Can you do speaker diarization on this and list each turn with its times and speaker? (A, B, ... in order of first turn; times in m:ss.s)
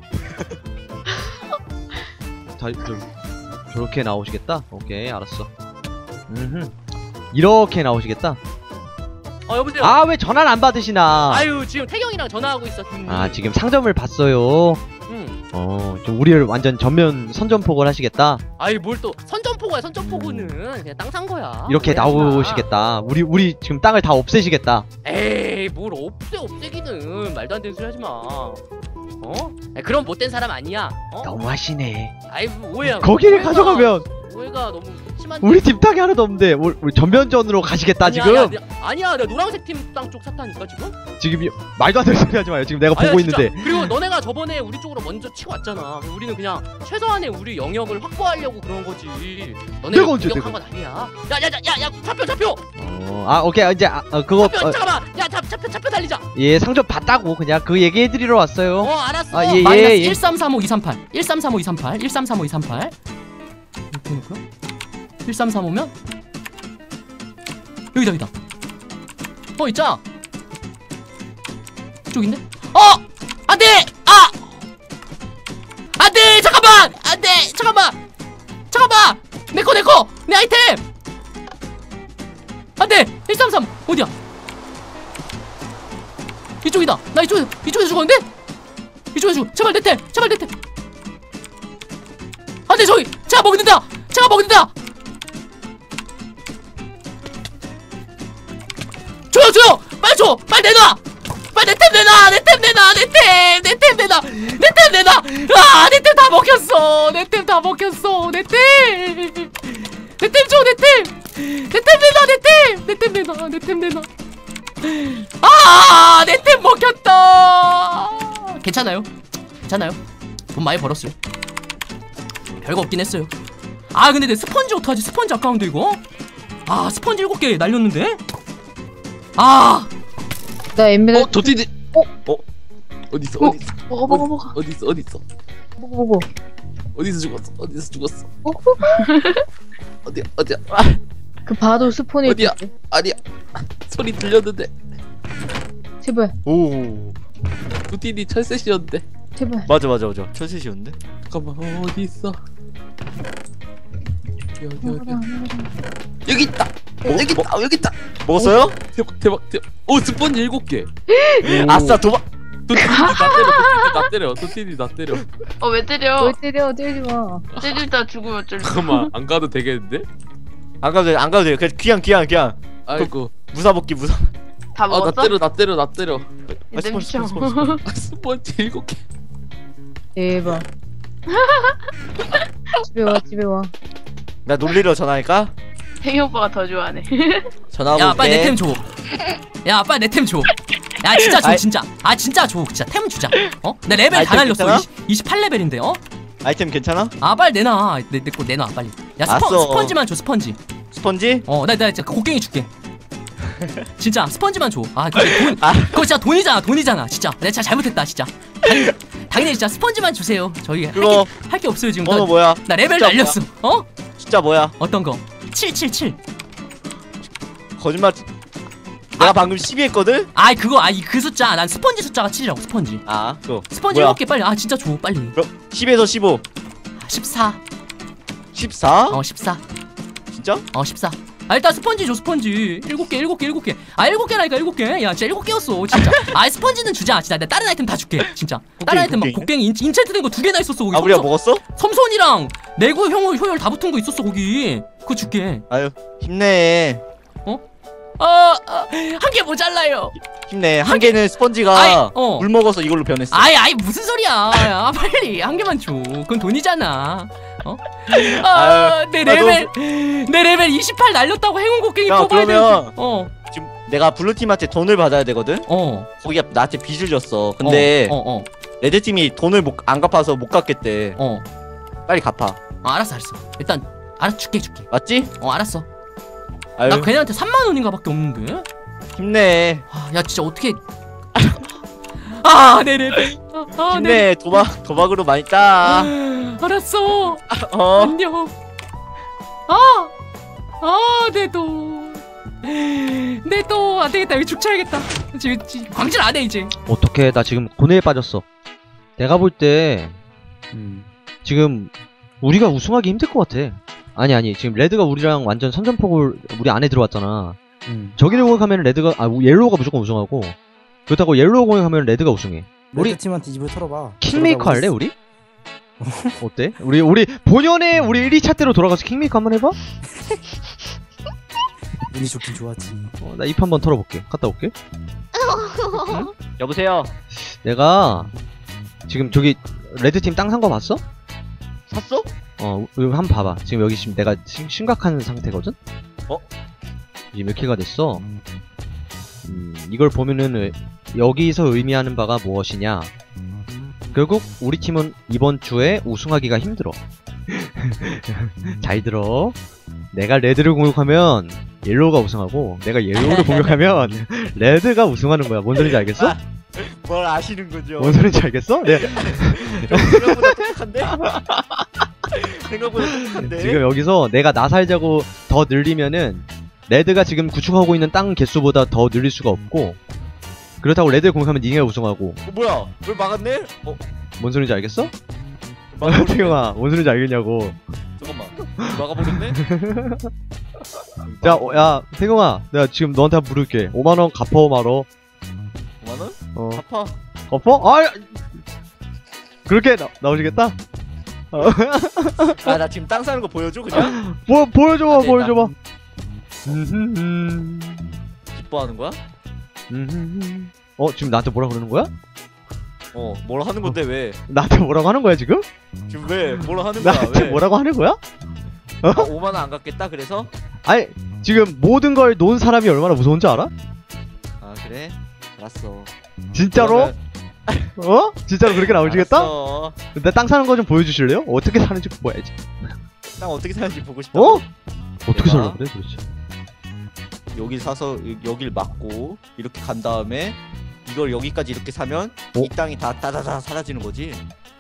0:02.6-0:03.1 A
0:03.7-0:05.5 A
0:06.3-0:06.7 A
0:07.3-0:08.4 A
0:09.5-0:10.0 B
0:09.8-0:11.5 A
0:11.3-0:13.4 B
0:13.1-0:14.8 A
0:15.1-0:15.4 B
0:15.5-0:18.4 A
0:18.6-0:22.7 B
0:21.7-0:24.9 A
0:25.0-0:28.6 B
0:29.2-0:31.3 B
0:31.2-0:32.1 A
0:32.3-0:35.8 B
0:33.0-0:34.1 A
0:35.4-0:38.6 A
0:38.0-0:41.0 B
0:41.2-0:43.8 A
0:42.9-0:52.6 B
0:49.9-0:50.6 A
0:52.8-0:54.8 A
0:54.4-0:56.2 B
0:56.4-1:00.2 A
0:58.8-1:02.9 B
1:03.9-1:04.4 B
1:05.2-1:05.9 B
1:07.9-1:08.3 B
1:09.6-1:10.0 B
1:12.1-1:14.5 B
1:16.0-1:18.0 B
1:18.7-1:20.8 B
1:22.8-1:24.1 B
1:26.6-1:28.2 B
1:29.1-1:30.5 B
1:32.7-1:34.7 B
1:39.3-1:54.1 B
1:54.8-1:59.1 B
1:59.7-2:00.0 B
2:00.5-2:01.1 B
2:02.6-2:03.3 B
2:03.9-2:06.0 B
2:06.7-2:08.2 B
2:09.4-2:09.9 B
2:10.8-2:12.1 C
2:11.2-2:11.7 D
2:13.1-2:15.2 D
2:13.4-2:14.5 E
2:15.8-2:16.3 C
2:17.0-2:18.3 D
2:18.4-2:19.0 C
2:19.1-2:19.4 E
2:20.0-2:20.6 D
2:20.7-2:21.0 F
2:21.5-2:22.7 C
2:22.3-2:24.7 D
2:26.0-2:26.3 C
2:26.5-2:27.2 F
2:27.9-2:29.0 D
2:29.4-2:29.7 C
2:29.7-2:31.0 F
2:31.3-2:32.4 D
2:34.6-2:35.2 D
2:34.8-2:35.7 C
2:36.3-2:40.9 D
2:37.1-2:37.5 F
2:38.2-2:38.8 F
2:41.2-2:41.5 C
2:41.4-2:42.2 F
2:41.5-2:42.0 D
2:42.7-2:45.3 D
2:43.0-2:43.5 E
2:45.6-2:46.3 E
2:46.2-2:47.5 C
2:47.5-2:47.9 D
2:47.6-2:49.1 E
2:48.6-2:50.1 D
2:50.8-2:54.3 F
2:52.9-2:53.3 D
2:54.8-2:55.3 E
2:54.9-2:56.3 D
2:56.5-2:57.8 F
2:56.8-2:57.8 E
2:57.8-2:59.0 D
3:00.2-3:00.7 C
3:02.8-3:03.7 C
3:04.5-3:05.5 F
3:06.0-3:07.5 E
3:07.7-3:08.6 F
3:07.9-3:08.8 B
3:09.6-3:16.0 B
3:14.1-3:14.9 F
3:16.4-3:17.1 F
3:17.2-3:20.6 B
3:19.3-3:20.0 F
3:20.9-3:21.5 F
3:21.5-3:22.7 B
3:24.0-3:33.9 B
3:25.2-3:26.0 F
3:31.0-3:31.3 F
3:32.0-3:33.4 F
3:34.2-3:34.8 F
3:34.8-3:36.2 B
3:37.8-3:38.3 F
3:39.2-3:40.3 F
3:40.4-3:43.0 B
3:43.1-3:44.2 F
3:43.7-3:45.4 B
3:45.4-3:46.4 F
3:47.0-3:47.6 B
3:48.5-3:49.2 F
3:49.1-3:49.6 B
3:50.3-3:50.7 F
3:50.7-4:05.6 B
3:58.8-3:59.5 F
4:00.9-4:01.6 F
4:05.7-4:07.0 F
4:08.2-4:10.2 B
4:10.5-4:13.5 F
4:10.9-4:12.5 B
4:13.3-4:23.3 B
4:18.1-4:19.7 F
4:22.1-4:22.9 F
4:23.5-4:25.7 F
4:25.7-4:26.1 B
4:26.2-4:28.2 F
4:27.6-4:28.5 B
4:28.8-4:31.2 F
4:31.2-4:31.4 B
4:32.1-4:32.6 F
4:32.8-4:34.9 B
4:34.9-4:35.3 F
4:35.4-4:35.9 B
4:36.8-4:37.1 F
4:36.9-4:38.7 B
4:39.2-4:39.8 F
4:39.9-4:40.8 B
4:41.4-4:41.6 F
4:42.2-4:44.7 B
4:43.9-4:46.1 F
4:45.8-4:47.4 B
4:47.5-4:48.2 F
4:48.0-4:48.5 B
4:49.7-4:50.1 B
4:50.8-4:56.7 B
4:56.9-4:58.4 A
4:59.2-5:00.2 A
5:00.7-5:01.1 G
5:01.4-5:07.6 A
5:07.9-5:08.2 G
5:08.2-5:10.6 A
5:11.1-5:13.2 A
5:12.9-5:15.0 G
5:14.2-5:15.2 A
5:16.0-5:16.4 G
5:16.4-5:19.8 A
5:22.1-5:23.1 G
5:23.2-5:24.7 A
5:26.0-5:26.3 A
5:26.4-5:27.1 F
5:27.6-5:28.3 A
5:29.1-5:31.0 A
5:31.9-5:32.3 F
5:32.6-5:35.8 A
5:37.3-5:38.2 A
5:39.4-5:43.1 A
5:44.1-5:47.0 A
5:47.5-5:49.6 A
5:50.1-5:56.4 A
5:53.2-5:53.8 F
5:55.8-5:58.2 F
5:58.0-6:00.5 A
5:58.9-6:01.2 F
6:01.2-6:01.8 A
6:02.4-6:03.8 F
6:03.4-6:10.0 A
6:10.8-6:12.4 A
6:12.5-6:14.0 F
6:14.4-6:15.1 A
6:15.9-6:16.6 F
6:16.0-6:17.8 A
6:18.2-6:19.6 F
6:19.6-6:20.3 A
6:21.2-6:22.0 F
6:21.4-6:25.1 A
6:26.0-6:27.2 F
6:26.6-6:26.8 A
6:27.5-6:28.4 A
6:29.7-6:30.8 A
6:31.5-6:32.8 A
6:32.6-6:34.1 F
6:34.0-6:35.7 A
6:35.1-6:35.6 F
6:36.7-6:38.1 A
6:38.5-6:39.2 F
6:39.9-6:42.1 A
6:43.1-6:44.4 F
6:44.5-6:45.6 A
6:46.1-6:47.6 F
6:47.0-6:48.2 A
6:49.0-6:49.3 A
6:49.1-6:50.5 F
6:50.9-6:53.7 A
6:54.6-6:56.1 F
6:56.5-6:57.1 A
6:56.8-6:57.2 F
6:58.0-6:59.5 A
6:58.9-7:00.0 F
7:00.1-7:02.6 A
7:03.4-7:04.7 F
7:04.3-7:04.6 A
7:05.3-7:06.2 A
7:05.3-7:05.8 F
7:07.5-7:14.4 F